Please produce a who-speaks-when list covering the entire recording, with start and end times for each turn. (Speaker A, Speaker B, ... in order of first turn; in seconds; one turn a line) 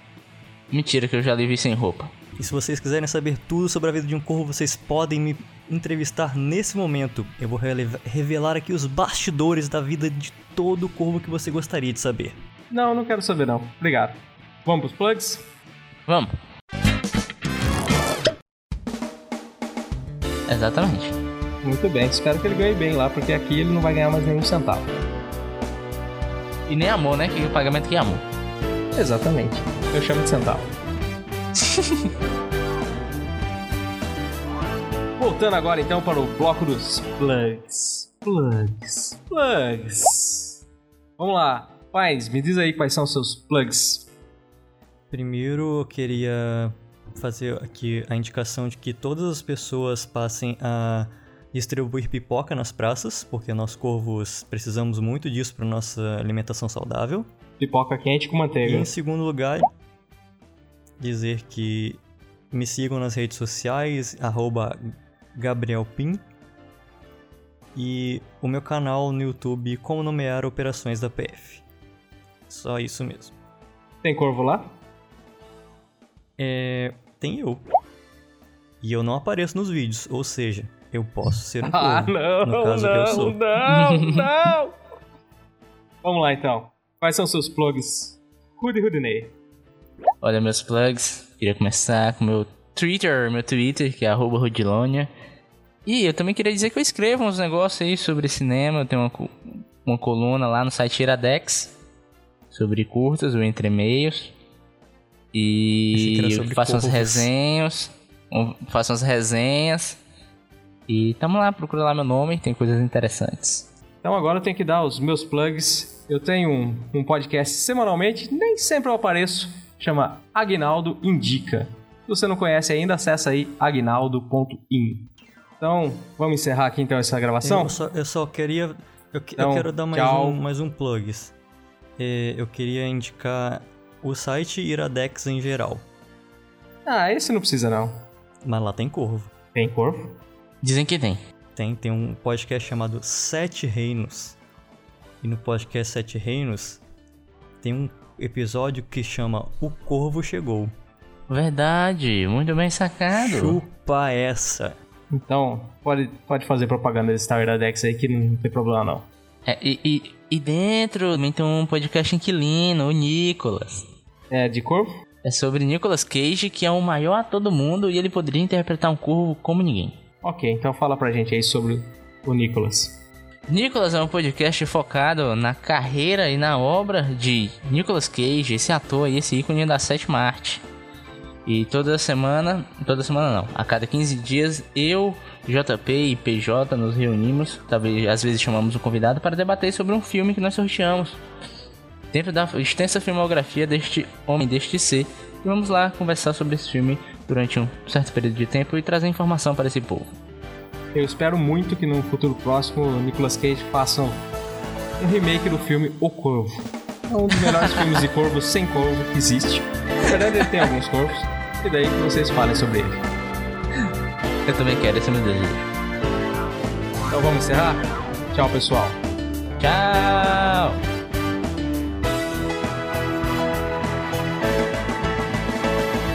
Speaker A: 0.7-2.1
Speaker B: 2.4-12.4
Speaker C: 12.7-15.4
Speaker A: 16.1-16.3
Speaker A: 20.5-21.2
Speaker C: 21.6-24.9
Speaker A: 26.7-28.2
Speaker C: 28.9-30.7
Speaker C: 35.2-40.6
Speaker C: 41.2-44.1
Speaker B: 45.1-57.3
Speaker C: 57.6-58.9
Speaker B: 58.6-59.7
Speaker B: 61.0-62.0
Speaker B: 62.5-66.2
Speaker B: 67.8-71.6
Speaker B: 72.5-73.3
Speaker C: 74.0-74.8
Speaker B: 76.4-77.6
Speaker B: 78.8-83.4
Speaker C: 81.6-84.7
Speaker A: 83.8-84.1
Speaker C: 86.0-89.3
Speaker A: 90.2-95.1
Speaker A: 95.9-101.8
Speaker A: 102.5-104.3
Speaker A: 105.3-110.0
Speaker B: 105.9-107.3
Speaker A: 110.9-113.7
Speaker C: 114.0-127.8
Speaker B: 127.4-131.3
Speaker C: 129.4-130.4
Speaker B: 132.0-135.8
Speaker C: 136.9-138.0
Speaker B: 138.4-139.3
Speaker C: 139.6-140.2
Speaker A: 140.6-141.2
Speaker B: 141.6-144.4
Speaker B: 145.2-146.8
Speaker B: 147.6-150.7
Speaker A: 151.3-153.6
Speaker B: 153.1-154.8
Speaker C: 155.1-159.1
Speaker A: 159.5-163.9
Speaker C: 164.3-164.9
Speaker A: 165.2-170.0
Speaker C: 170.2-172.9
Speaker A: 173.5-180.6
Speaker A: 181.5-191.2
Speaker A: 192.1-200.1
Speaker C: 200.9-204.2
Speaker C: 205.0-213.0
Speaker A: 214.5-215.7
Speaker C: 217.1-219.0
Speaker A: 219.6-220.8